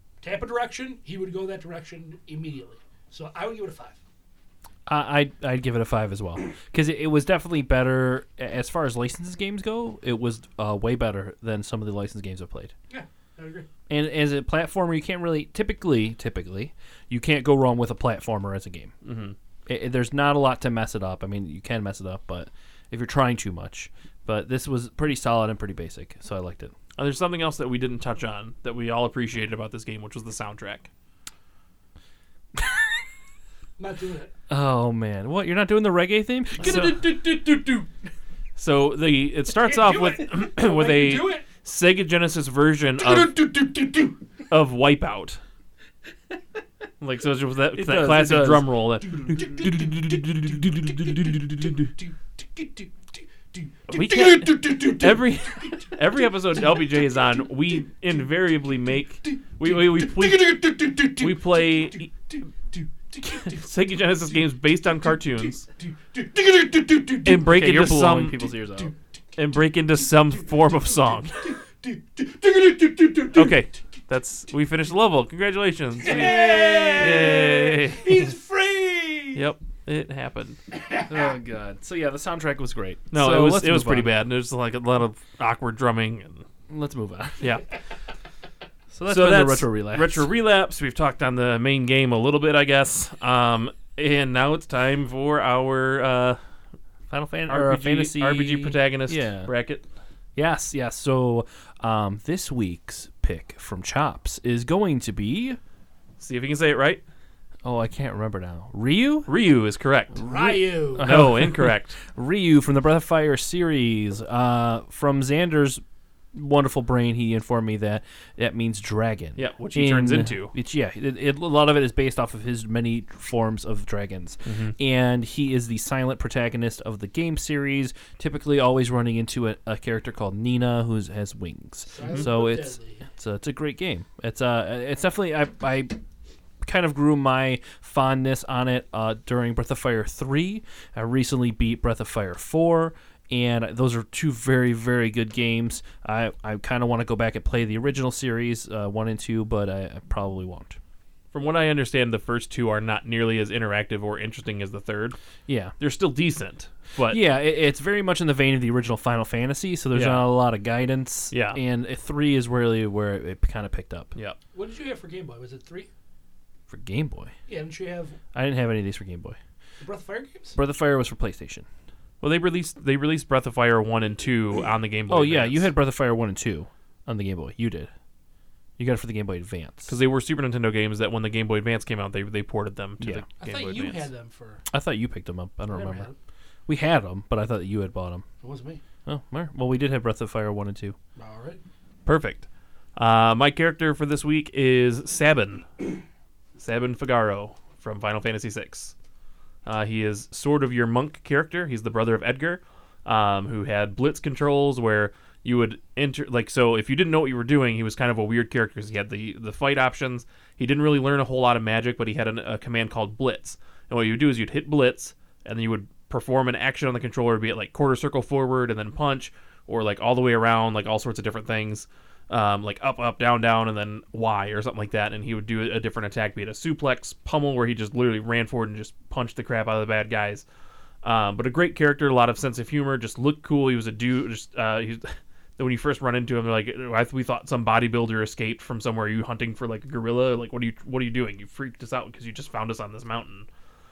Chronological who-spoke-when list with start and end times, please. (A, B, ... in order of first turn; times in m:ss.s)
0:00.2-0:04.0 A
0:04.9-0:12.7 B
0:12.9-0:13.7 A
0:13.9-0:18.9 B
0:19.0-0:19.4 C
0:19.7-0:26.7 B
0:27.0-0:30.9 C
0:33.8-0:34.3 A
0:34.5-0:37.5 B
0:36.6-0:37.0 C
0:36.6-0:37.9 A
0:38.6-0:43.4 C
0:39.6-0:41.5 A
0:43.0-0:44.2 A
0:44.5-0:45.4 C
0:47.0-0:51.9 C
0:47.7-0:48.7 B
0:49.1-0:56.2 A
0:53.9-1:00.6 C
0:59.2-1:07.5 A
1:01.2-1:02.1 C
1:03.4-1:05.6 C
1:07.2-1:08.4 C
1:07.3-1:08.9 B
1:09.4-1:11.5 C
1:11.4-1:13.7 A
1:13.3-1:18.3 C
1:16.0-1:19.4 A
1:19.3-1:20.6 C
1:20.8-1:21.1 A
1:21.1-1:24.1 B
1:23.1-1:26.5 C
1:26.7-1:27.5 B
1:28.9-1:30.3 B
1:29.1-1:36.4 C
1:37.1-1:39.5 B
1:37.5-1:39.8 C
1:40.4-1:45.6 B
1:46.2-1:47.0 C
1:47.6-1:49.4 B
1:49.3-1:50.2 C
1:50.2-1:55.8 B
1:50.3-1:51.2 A
1:51.0-1:52.0 C
1:56.3-2:16.0 B
1:59.4-2:00.5 C
2:04.4-2:04.8 C
2:11.9-2:13.1 A
2:12.0-2:12.3 C
2:16.6-2:30.8 B
2:31.3-2:35.2 C
2:35.5-2:35.7 B
2:35.8-2:37.2 C
2:37.1-2:44.1 B
2:39.9-2:40.4 C
2:41.3-2:41.6 C
2:44.5-2:45.9 A
2:46.7-2:47.3 B
2:47.5-2:48.2 A
2:48.3-2:49.4 B
2:49.8-2:50.6 A
2:50.6-2:51.7 B
2:52.2-2:55.7 C
2:55.1-2:57.9 B
2:58.8-2:59.9 B
2:59.9-3:04.1 C
3:03.0-3:03.3 B
3:03.4-3:04.6 A
3:04.7-3:06.1 B
3:05.7-3:06.2 A
3:06.7-3:08.2 B
3:08.4-3:08.8 A
3:09.1-3:11.0 B
3:11.2-3:11.6 A
3:12.0-3:15.9 C
3:16.6-3:18.9 C
3:19.6-3:50.4 C
3:51.0-4:03.5 C